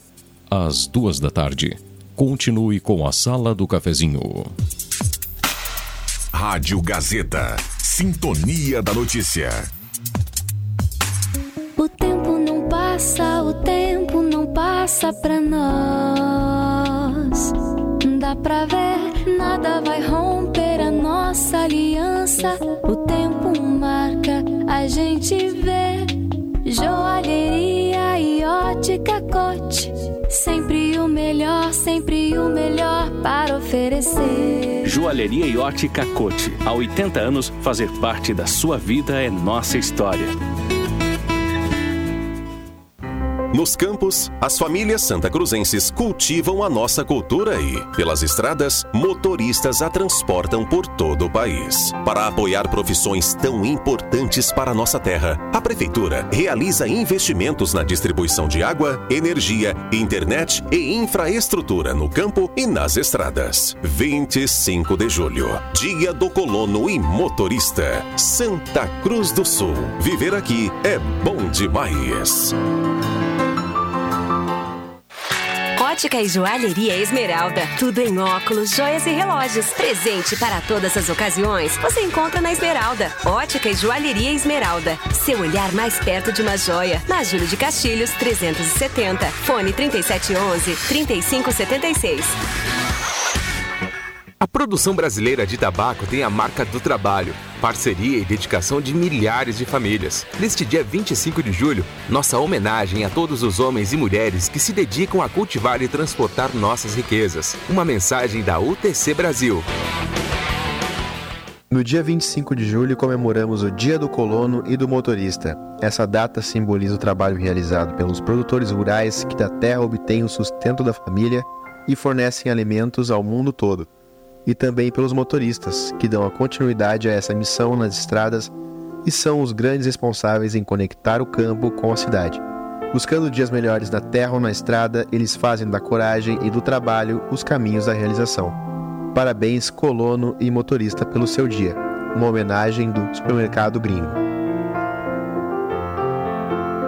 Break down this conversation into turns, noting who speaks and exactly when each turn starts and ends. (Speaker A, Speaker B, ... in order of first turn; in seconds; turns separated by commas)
Speaker A: 0.5-4.5, Speaker B: 6.3-9.7, Speaker C: 11.8-34.8, Speaker D: 34.9-40.4, Speaker E: 43.5-72.5, Speaker F: 75.8-92.4, Speaker G: 94.4-109.7, Speaker H: 111.7-123.9, Speaker H: 124.5-128.5, Speaker H: 129.0-138.6, Speaker H: 139.1-144.2